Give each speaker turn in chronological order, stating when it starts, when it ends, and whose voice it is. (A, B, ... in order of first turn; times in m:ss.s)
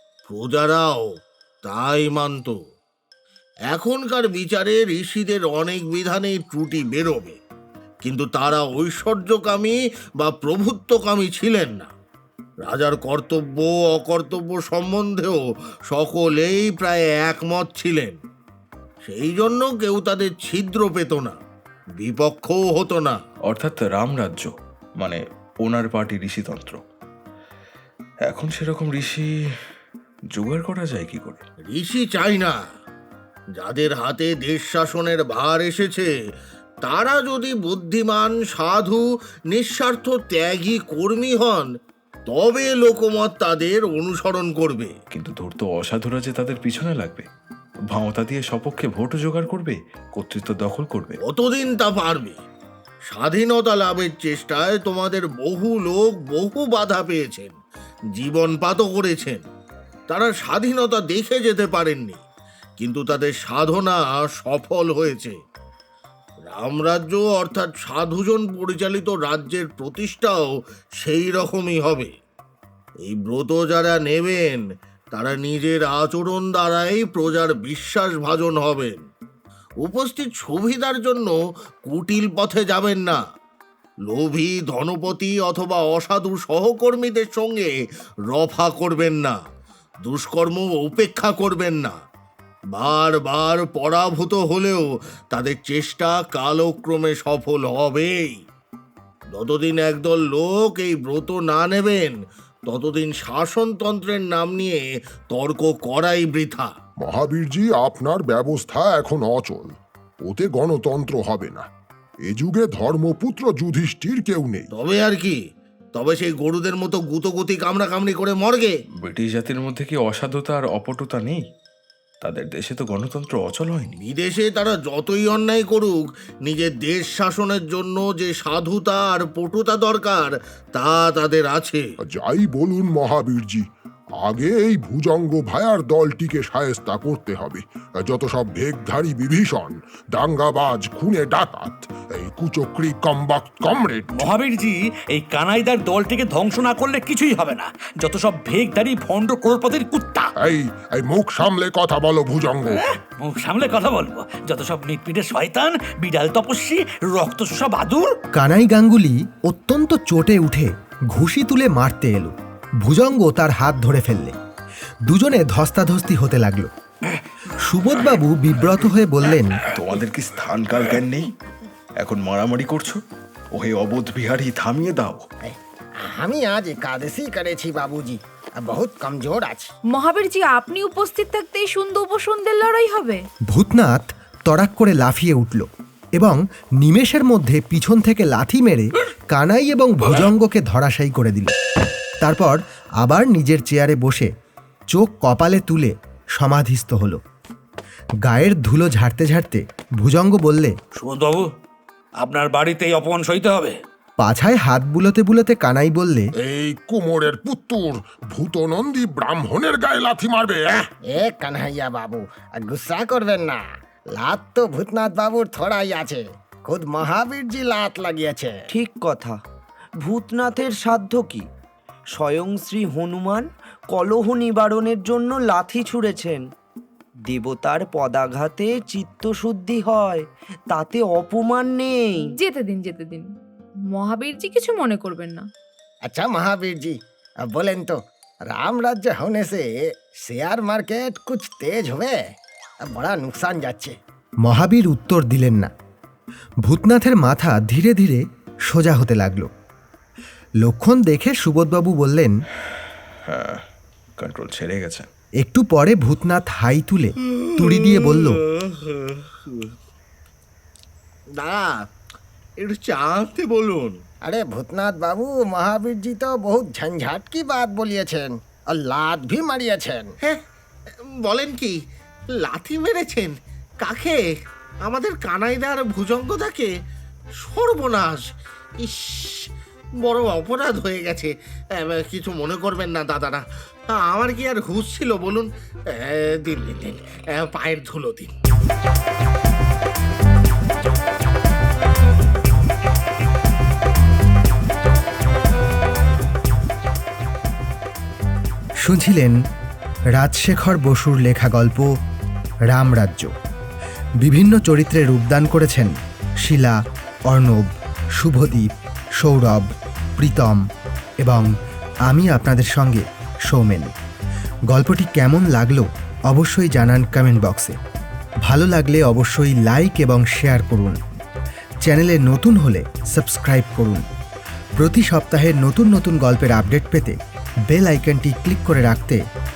0:00.3-0:01.1 A
0:01.6-0:02.6 A
0:03.7-0:07.4 A
0:08.0-0:11.9 A
0:12.6-0:15.4 A
0:15.9-0:18.2 A
0:19.1-0:21.4 A
0:22.0-0:23.2 A
0:23.5-0:26.8 B
0:28.2-0:29.3 B
0:30.3-0:31.4 B
0:31.7-0:32.6 A
0:33.6-0:36.1 A
0:36.8-0:41.7 A
0:42.3-0:44.9 A
0:45.1-0:47.2 B
0:47.9-0:51.2 B
0:51.2-0:52.4 A
0:53.1-0:57.6 A
0:58.1-0:59.4 A
1:00.1-1:02.2 A
1:02.8-1:05.4 A
1:06.5-1:10.4 A
1:11.0-1:12.1 A
1:13.1-1:14.6 A
1:15.1-1:19.0 A
1:19.8-1:21.4 A
1:21.9-1:23.2 A
1:24.1-1:27.7 A
1:28.3-1:29.4 A
1:30.0-1:32.0 A
1:32.7-1:38.4 A
1:39.3-1:46.7 A
1:47.0-1:49.7 C
1:50.2-1:51.6 C
1:52.3-1:54.7 C
1:54.7-1:55.4 A
1:55.9-1:58.7 A
1:59.0-2:01.4 B
2:02.2-2:04.0 B
2:04.0-2:11.8 A
2:12.1-2:13.6 C
2:14.2-2:24.3 C
2:24.1-2:30.3 D
2:30.4-2:32.8 C
2:32.7-2:38.1 D
2:38.4-2:44.4 E
2:45.1-2:46.7 E
2:47.6-2:49.6 E
2:49.7-2:51.3 B
2:52.0-2:53.0 B
2:53.6-2:55.2 B
2:56.1-2:59.7 F
2:59.9-3:03.2 G
3:03.5-3:11.6 E
3:12.2-3:14.3 E
3:14.9-3:17.2 E
3:18.2-3:20.7 E
3:21.0-3:21.4 D
3:22.2-3:23.7 D
3:24.2-3:26.3 E
3:26.4-3:30.9 C
3:31.1-3:33.6 F
3:34.2-3:38.6 F
3:38.7-3:39.4 H
3:40.0-3:41.4 H
3:42.2-3:46.4 H
3:47.3-3:52.3 H
3:52.4-3:53.3 G
3:53.9-3:55.4 G
3:56.1-3:58.0 F
3:58.5-3:59.6 F
4:00.2-4:02.2 F
4:02.9-4:03.9 F
4:04.4-4:05.7 E
4:06.6-4:09.5 E
4:10.6-4:12.3 E
4:13.3-4:13.6 B
4:14.2-4:15.1 B
4:15.4-4:18.4 E
4:17.3-4:19.7 A
4:21.4-4:21.7 A
4:22.6-4:24.0 A
4:24.3-4:30.1 F
4:31.2-4:31.8 A
4:32.4-4:34.2 A
4:34.8-4:36.7 A
4:37.4-4:39.5 A
4:40.0-4:48.3 A
4:58.8-4:59.4 E
5:00.1-5:01.9 E
5:02.7-5:03.3 E
5:04.2-5:05.9 E
5:06.4-5:06.8 E
5:07.3-5:08.7 E
5:09.2-5:10.6 E
5:11.2-5:11.5 E
5:12.1-5:13.9 E
5:14.7-5:17.8 E
5:18.4-5:21.0 E
5:21.9-5:24.0 E
5:24.8-5:27.2 E
5:27.7-5:29.2 E